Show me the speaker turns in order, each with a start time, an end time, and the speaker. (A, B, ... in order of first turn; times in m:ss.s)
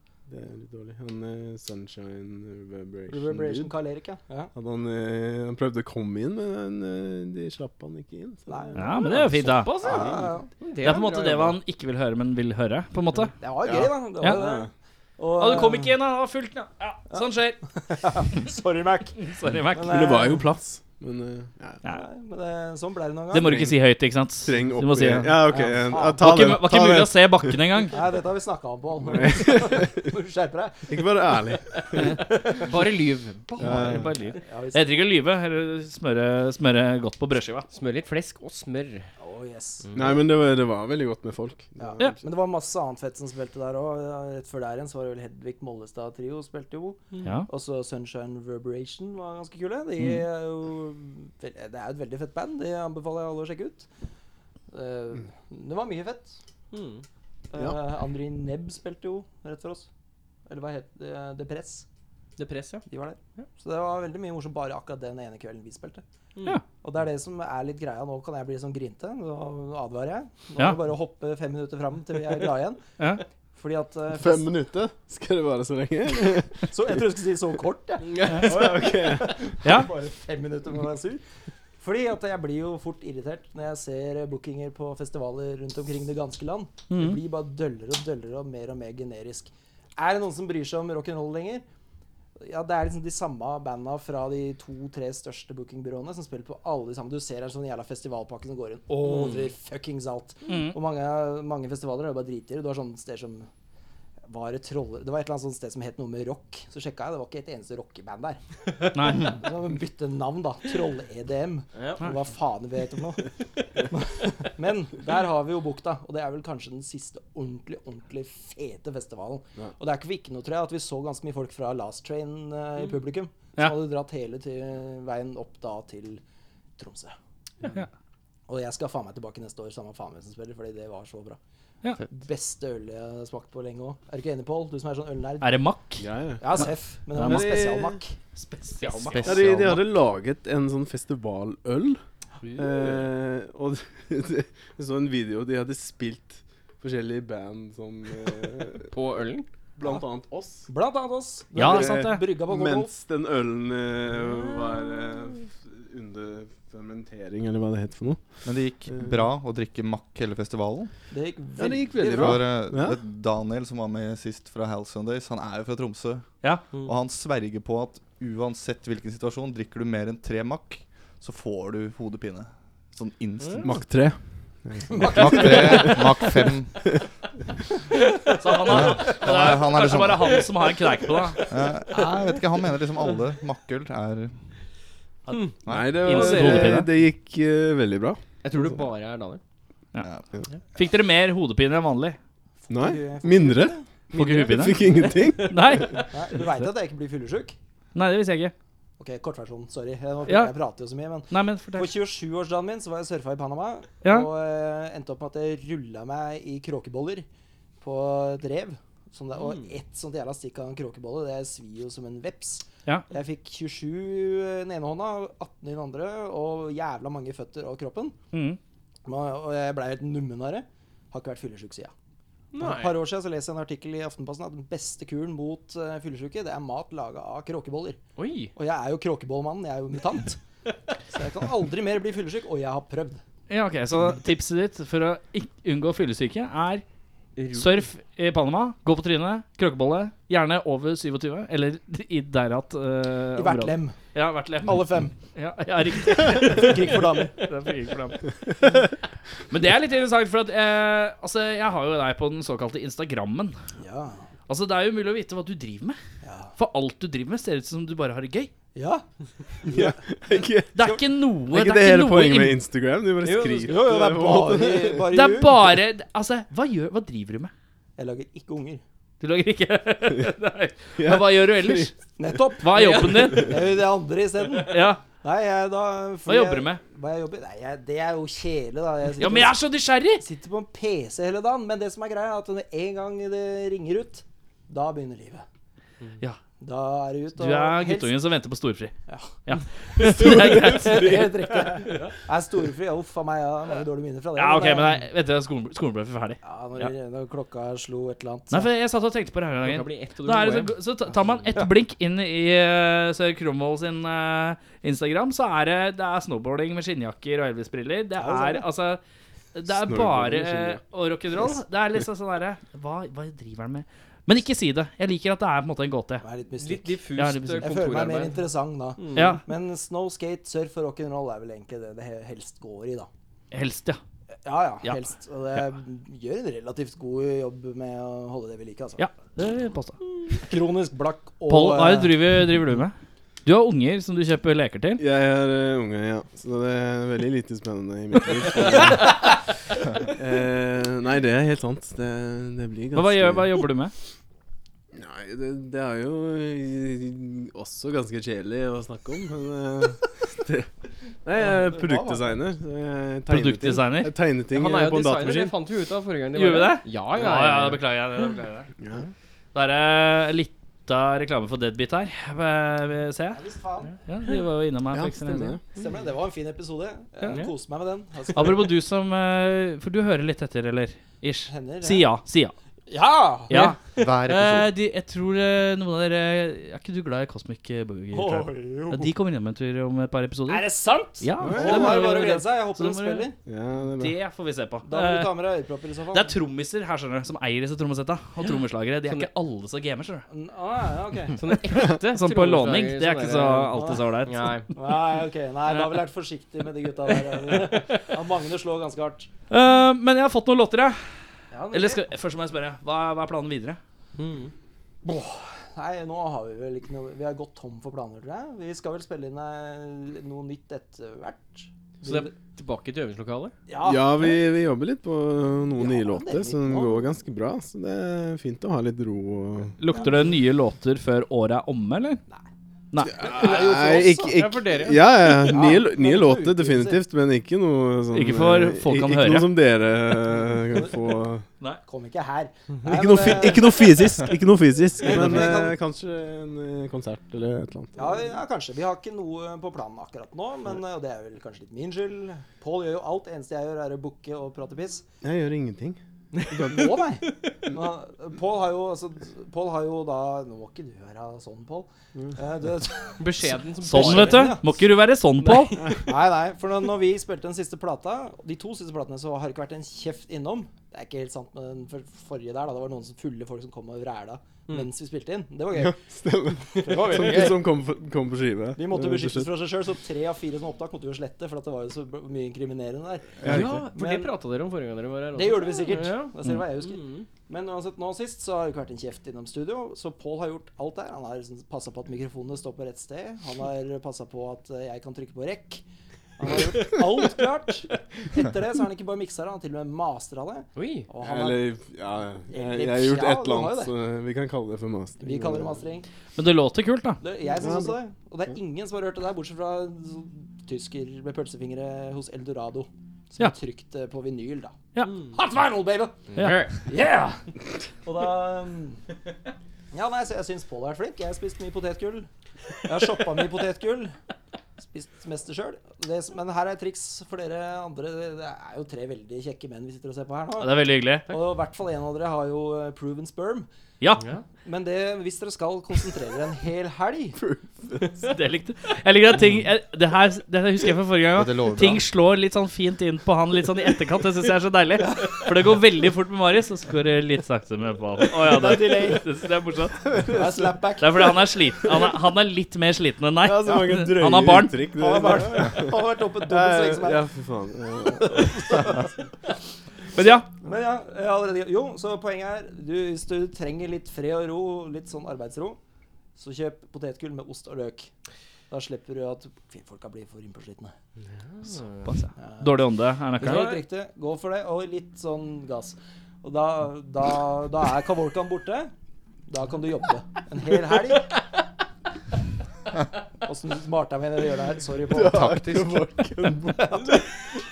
0:00.3-0:03.7 A
0:03.1-0:04.5 B
0:04.5-0:09.1 A
0:08.5-0:10.5 B
0:08.7-0:09.9 C
0:09.4-0:11.6 D
0:10.8-0:13.3 C
0:13.4-0:15.9 B
0:13.6-0:14.7 A
0:15.4-0:17.6 C
0:17.1-0:20.5 B
0:19.2-0:20.2 C
0:19.8-0:21.8 A
0:21.8-0:23.7 B
0:23.3-0:25.6 C
0:23.4-0:23.7 A
0:24.4-0:27.6 A
0:25.5-0:26.3 B
0:26.2-0:28.0 C
0:27.9-0:31.1 B
0:29.0-0:30.1 A
0:30.9-0:32.1 A
0:31.9-0:32.8 B
0:32.6-0:33.9 D
0:33.6-0:37.7 C
0:33.6-0:34.1 A
0:34.3-0:34.9 B
0:37.7-0:39.1 D
0:39.2-0:40.1 B
0:39.9-0:42.1 A
0:41.8-0:53.9 B
0:54.7-0:56.4 B
0:56.7-0:57.0 D
0:57.5-0:59.9 B
1:00.4-1:01.8 B
1:02.4-1:02.8 D
1:02.9-1:06.0 B
1:06.8-1:12.8 B
1:13.0-1:13.2 C
1:13.5-1:14.5 B
1:14.1-1:16.7 A
1:16.6-1:21.2 B
1:18.2-1:19.6 A
1:19.6-1:19.9 C
1:21.8-1:31.6 B
1:26.9-1:27.2 C
1:32.4-1:43.5 B
1:39.0-1:39.4 D
1:40.5-1:40.8 C
1:44.3-1:48.4 B
1:48.9-1:49.4 C
1:49.0-1:53.3 B
1:51.8-1:52.1 D
1:53.9-2:06.2 B
2:06.8-2:07.2 B
2:08.5-2:11.4 B
2:12.0-2:15.6 B
2:15.4-2:16.0 C
2:16.0-2:18.0 A
2:16.4-2:18.1 B
2:17.2-2:17.5 C
2:18.4-2:19.7 C
2:19.1-2:19.8 E
2:19.2-2:22.0 A
2:22.4-2:23.1 D
2:22.6-2:28.9 A
2:28.9-2:29.5 D
2:29.8-2:30.7 A
2:30.7-2:32.9 B
2:31.6-2:32.2 C
2:31.6-2:38.2 A
2:38.4-2:40.9 E
2:41.1-2:42.4 B
2:41.6-2:43.0 A
2:42.0-2:53.8 E
2:53.4-2:53.7 D
2:53.6-2:56.2 A
2:54.9-2:56.3 B
2:55.1-2:56.9 E
2:58.4-3:01.5 C
2:58.7-3:00.5 E
3:01.5-3:04.5 E
3:05.3-3:06.9 C
3:05.3-3:06.8 D
3:05.6-3:08.2 A
3:05.7-3:05.9 E
3:08.4-3:09.4 D
3:10.7-3:12.2 C
3:12.7-3:13.8 B
3:12.7-3:16.0 A
3:14.1-3:14.9 C
3:15.4-3:16.0 C
3:16.1-3:17.6 B
3:17.9-3:18.5 C
3:19.0-3:27.2 B
3:20.3-3:20.5 C
3:21.3-3:21.9 C
3:24.0-3:24.3 C
3:27.8-3:38.2 B
3:38.3-3:38.6 C
3:39.0-3:41.9 B
3:42.5-3:43.0 D
3:42.6-3:48.0 B
3:48.2-3:48.5 D
3:48.5-3:50.4 B
3:51.1-3:53.2 B
3:53.5-3:56.8 C
3:57.4-3:57.8 D
3:57.5-4:08.3 C
4:03.4-4:04.0 B
4:04.6-4:05.1 B
4:06.2-4:07.5 B
4:09.5-4:13.5 C
4:13.8-4:14.2 B
4:14.5-4:16.0 C
4:16.2-4:16.5 B
4:16.6-4:18.5 C
4:18.7-4:19.0 B
4:19.6-4:20.0 B
4:19.6-4:25.0 A
4:20.7-4:22.6 C
4:23.2-4:23.9 D
4:23.6-4:25.8 B
4:25.1-4:27.5 C
4:28.0-4:28.8 B
4:29.2-4:31.9 C
4:31.0-4:31.9 A
4:32.2-4:39.6 B
4:32.6-4:33.6 C
4:34.6-4:35.0 C
4:36.3-4:36.8 C
4:39.2-4:40.2 C
4:40.2-4:45.4 B
4:46.6-4:48.2 B
4:47.4-4:48.9 C
4:49.1-4:49.3 B
4:49.4-4:51.3 C
4:50.0-4:51.3 A
4:50.2-4:55.0 B
4:54.4-4:56.9 C
4:56.4-4:58.7 B
4:58.5-5:09.0 C
4:59.6-5:00.7 D
5:08.2-5:08.6 B
5:09.5-5:16.2 C
5:09.7-5:10.8 A
5:16.2-5:17.0 B
5:16.6-5:18.4 D
5:17.2-5:17.7 C
5:17.5-5:23.1 B
5:19.0-5:19.4 D
5:19.1-5:19.4 C
5:23.5-5:24.0 C
5:24.4-5:29.0 B
5:29.0-5:30.0 C
5:30.3-5:32.4 B
5:31.5-5:35.0 C
5:35.0-5:39.2 A
5:40.0-5:43.6 A
5:42.9-5:43.9 C
5:44.9-5:50.7 A
5:51.2-5:55.5 A
5:51.4-5:52.3 B
5:53.3-5:54.1 C
5:54.5-5:57.8 D
5:56.3-5:58.7 C
5:58.8-5:59.1 A
5:59.5-6:03.4 C
6:03.3-6:04.0 B
6:04.1-6:05.6 C
6:04.9-6:05.6 A
6:05.7-6:08.7 B
6:08.3-6:12.5 C
6:11.5-6:12.1 B
6:12.9-6:13.7 B
6:13.5-6:20.7 C
6:14.0-6:14.7 E
6:18.1-6:19.1 B
6:20.5-6:23.4 B
6:21.2-6:23.3 C
6:21.4-6:22.0 A
6:21.4-6:22.2 D
6:23.4-6:24.2 A
6:24.0-6:25.3 C
6:24.8-6:26.4 B
6:26.1-6:30.2 C
6:29.0-6:29.3 D
6:30.3-6:31.4 B
6:31.4-6:34.7 D
6:31.8-6:34.7 C
6:33.7-6:34.0 B
6:34.7-6:39.3 B
6:35.7-6:36.0 C
6:39.5-6:41.1 C
6:41.5-6:42.0 B
6:41.7-6:43.8 C
6:44.2-6:44.5 D
6:45.0-6:52.3 B
6:52.0-6:53.5 D
6:53.7-6:54.4 B
6:53.8-6:59.8 A
6:55.8-6:57.1 B
6:59.8-7:02.2 C
6:59.9-7:00.2 B
7:03.0-7:11.4 A
7:03.2-7:04.4 B
7:04.2-7:05.3 D
7:05.4-7:07.0 B
7:08.1-7:09.5 C
7:11.8-7:14.4 B
7:12.8-7:18.2 A
7:15.0-7:15.8 B
7:18.0-7:25.0 B
7:25.2-7:26.0 A
7:26.3-7:27.5 D
7:26.5-7:34.8 B
7:26.6-7:26.9 A
7:33.2-7:34.6 D
7:33.8-7:35.8 C
7:35.4-7:46.0 B
7:45.7-7:49.5 A
7:46.7-7:47.6 B
7:46.8-7:47.6 D
7:48.8-7:54.3 B
7:53.4-7:53.9 A
7:53.4-7:57.3 D
7:55.3-8:05.8 B
8:06.4-8:11.7 B
8:10.8-8:11.1 D
8:11.2-8:15.8 A
8:12.5-8:13.9 B
8:15.2-8:16.1 B
8:16.4-8:17.2 C
8:17.2-8:26.2 B
8:17.6-8:18.0 A
8:26.3-8:26.8 D
8:26.4-8:26.7 C
8:26.8-8:27.4 B
8:28.0-8:29.0 B
8:29.9-8:32.3 B
8:32.8-8:34.1 B
8:34.8-8:43.7 B
8:40.6-8:41.3 C
8:44.2-8:44.4 D
8:44.6-8:47.4 B
8:47.4-8:48.1 A
8:48.2-9:00.1 C
8:51.3-8:52.0 E
8:58.4-8:59.2 B
9:00.1-9:00.6 A
9:00.2-9:01.5 B
9:01.0-9:04.8 C
9:03.4-9:08.9 A
9:04.9-9:07.2 B
9:08.0-9:09.2 B
9:10.1-9:10.5 C
9:10.6-9:15.8 B
9:16.4-9:18.1 B
9:18.7-9:20.9 B
9:21.5-9:22.1 D
9:22.0-9:23.8 C
9:22.4-9:22.7 B
9:23.4-9:28.9 B
9:29.5-9:31.4 B
9:33.4-9:35.9 B
9:35.1-9:37.2 A
9:36.9-9:37.2 B